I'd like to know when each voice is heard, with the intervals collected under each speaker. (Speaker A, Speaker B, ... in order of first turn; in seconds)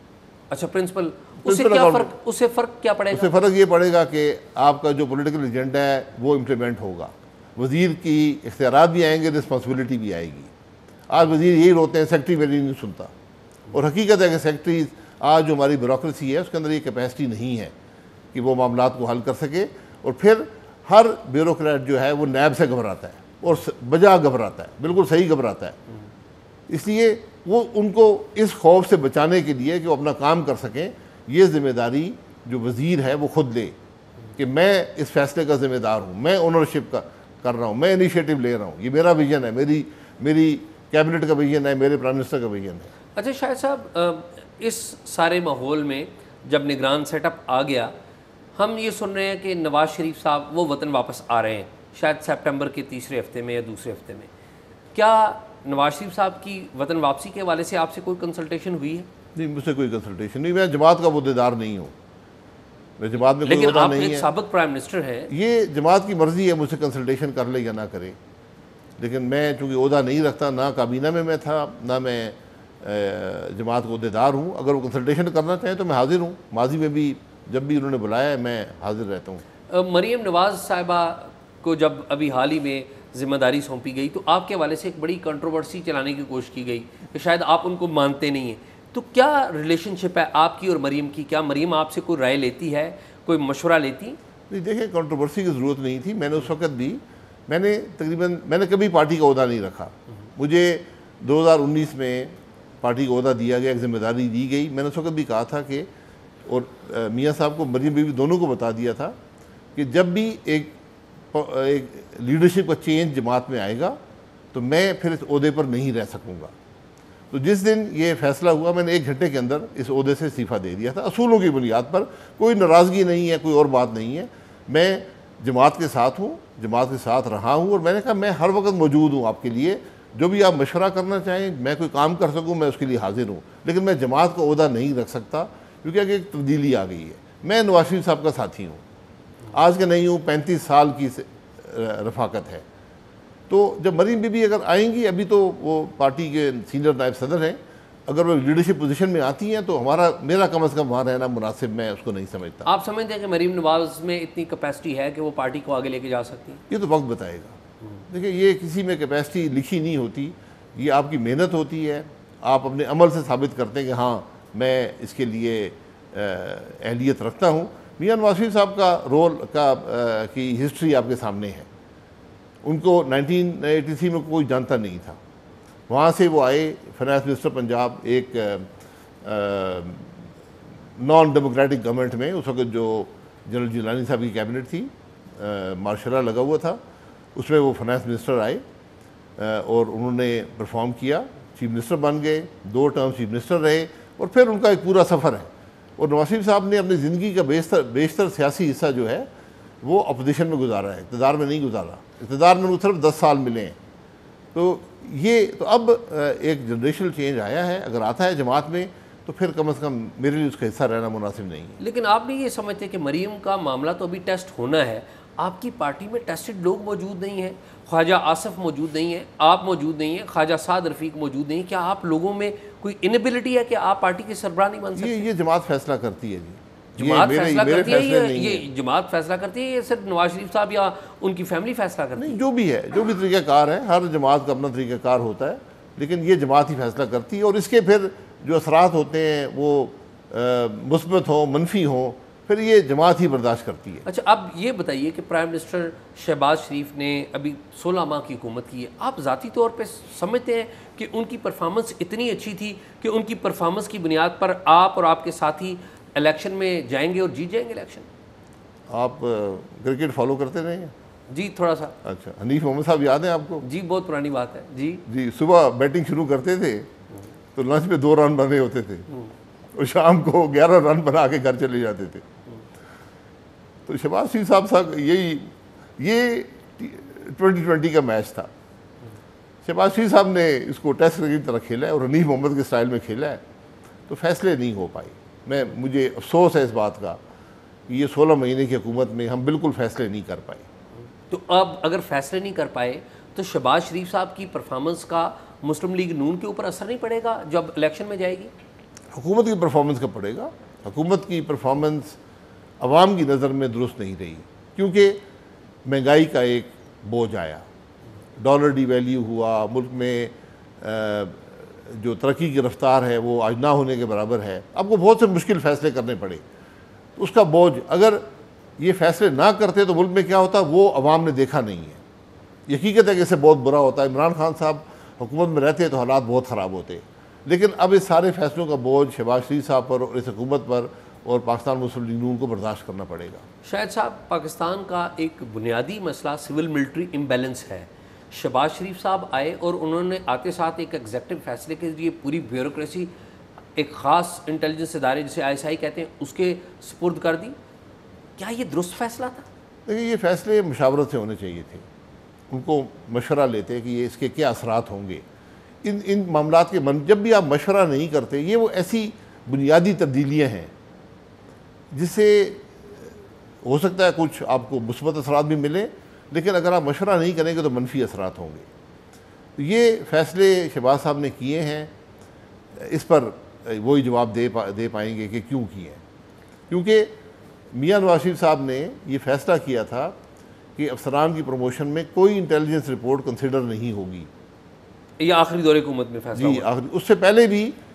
Speaker A: 0.5-3.3, 43.2-47.9, 48.6-54.3, 55.0-59.1, 63.4-65.3, 79.7-94.2, 152.7-156.6, 211.8-225.3, 227.0-232.4, 244.1-258.1, 261.3-261.9, 263.6-265.1, 291.3-298.5, 333.6-343.1, 343.8-347.6, 348.4-349.5, 385.2-386.7
Speaker B: 1.4-2.1, 3.1-10.5, 11.1-13.1, 13.7-17.7, 18.3-25.8, 26.7-33.8, 34.4-42.9, 59.4-62.0, 63.0-64.3, 65.3-68.2, 69.0-79.4, 94.5-105.9, 106.5-109.2, 109.8-110.8, 111.3-114.0, 114.5-116.5, 117.3-138.8, 139.5-142.7, 143.5-152.7, 156.7-157.6, 158.1-171.7, 172.6-175.2, 175.9-178.7, 179.2-180.2, 181.0-186.8, 187.3-188.6, 189.4-199.3, 199.8-203.8, 204.5-211.8, 225.0-228.7, 232.2-244.1, 258.9-260.9, 262.0-263.7, 265.1-266.9, 267.6-269.1, 269.7-272.2, 273.9-278.5, 279.6-283.4, 284.1-287.2, 287.9-290.7, 299.1-302.2, 302.8-305.2, 305.9-307.6, 308.4-316.4, 317.2-318.2, 318.8-322.0, 322.7-333.4, 349.9-351.9, 352.5-355.2, 355.8-360.7, 361.9-363.1, 363.6-368.7, 369.6-371.9, 372.8-376.0, 376.7-377.1, 377.7-380.2, 380.8-384.3, 386.4-387.8